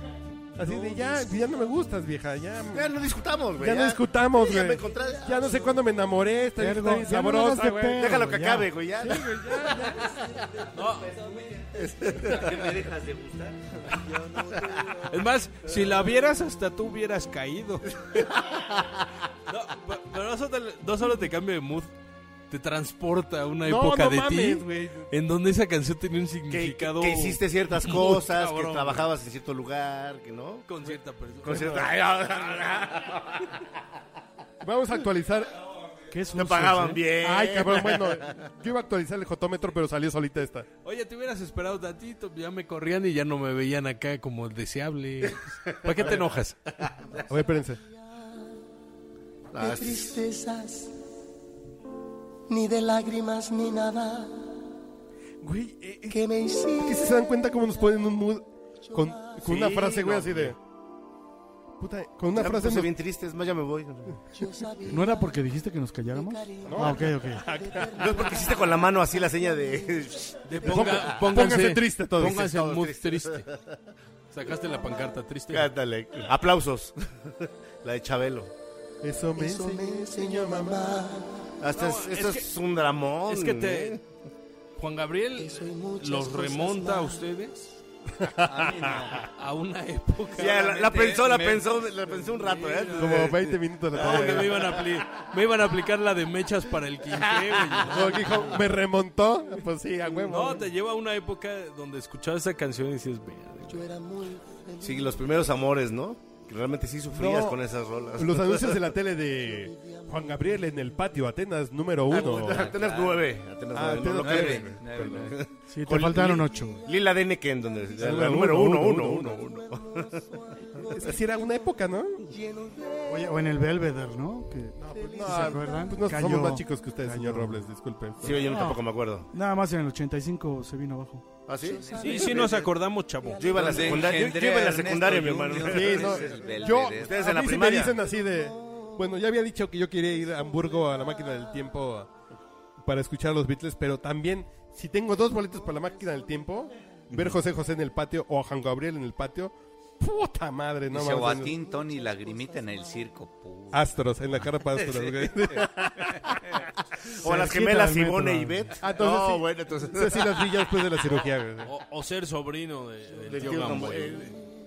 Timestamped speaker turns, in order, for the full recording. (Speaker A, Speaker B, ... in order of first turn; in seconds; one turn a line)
Speaker A: 0.6-2.9
Speaker B: 0.7-1.3
Speaker C: 2.7-5.7
Speaker A: 3.6-8.2
Speaker D: 6.6-9.2
Speaker C: 7.9-10.2
Speaker A: 9.0-10.1
Speaker B: 9.8-12.1
Speaker E: 10.7-11.2
Speaker C: 11.7-12.8
Speaker F: 12.0-13.9
Speaker B: 13.9-15.3
Speaker E: 15.0-18.3
Speaker C: 18.1-19.0
Speaker E: 19.5-21.9
Speaker E: 22.5-29.1
Speaker A: 23.6-25.1
Speaker C: 26.5-30.7
Speaker E: 30.7-31.9
Speaker C: 31.4-33.6
Speaker A: 34.6-35.6
Speaker D: 36.1-37.0
Speaker C: 36.3-38.4
Speaker A: 37.2-40.7
Speaker E: 40.8-46.9
Speaker C: 45.2-47.2
Speaker A: 47.3-47.8
Speaker C: 49.5-50.2
Speaker B: 49.5-50.9
Speaker B: 52.5-54.5
Speaker A: 55.4-56.2
Speaker B: 56.1-57.1
Speaker A: 56.8-60.6
Speaker B: 58.9-59.4
Speaker C: 59.4-60.5
Speaker E: 59.6-60.4
Speaker A: 61.8-62.9
Speaker C: 62.3-64.2
Speaker B: 64.3-65.4
Speaker D: 64.9-67.5
Speaker B: 66.1-71.3
Speaker A: 66.6-68.2
Speaker C: 67.9-71.5
Speaker E: 70.4-73.5
Speaker A: 70.6-72.5
Speaker C: 72.2-73.7
Speaker E: 74.3-75.7
Speaker C: 75.5-78.5
Speaker A: 79.0-81.0
Speaker B: 79.3-81.5
Speaker C: 81.6-84.0
Speaker E: 81.7-82.5
Speaker E: 83.3-84.0
Speaker E: 84.8-87.7
Speaker B: 85.3-87.2
Speaker A: 88.2-89.2
Speaker F: 88.3-89.3
Speaker E: 89.2-90.9
Speaker C: 90.3-94.8
Speaker F: 90.8-91.6
Speaker E: 92.2-93.3
Speaker A: 93.0-94.8
Speaker E: 93.9-98.6
Speaker A: 97.8-100.7
Speaker E: 100.2-103.8
Speaker B: 103.7-105.2
Speaker C: 104.8-108.9
Speaker A: 107.1-107.6
Speaker A: 108.2-112.7
Speaker B: 109.5-110.6
Speaker C: 112.1-120.3
Speaker F: 112.1-113.3
Speaker A: 113.7-115.3
Speaker F: 114.0-115.4
Speaker D: 115.7-116.8
Speaker B: 116.5-116.9
Speaker A: 118.0-119.5
Speaker B: 119.4-123.3
Speaker A: 120.8-122.2
Speaker D: 123.1-127.7
Speaker A: 124.8-128.5
Speaker B: 124.8-126.1
Speaker C: 128.2-129.3
Speaker D: 128.4-131.2
Speaker C: 131.5-132.6
Speaker B: 131.6-133.7
Speaker E: 132.0-134.2
Speaker C: 133.4-138.0
Speaker F: 133.5-137.2
Speaker A: 135.6-142.1
Speaker B: 137.4-138.9
Speaker A: 142.8-151.6
Speaker F: 147.1-147.4
Speaker F: 150.9-155.6
Speaker B: 151.5-152.5
Speaker A: 153.7-156.3
Speaker F: 156.2-156.7
Speaker C: 157.0-161.2
Speaker D: 157.2-158.7
Speaker A: 158.8-161.7
Speaker E: 161.6-164.3
Speaker C: 163.3-164.3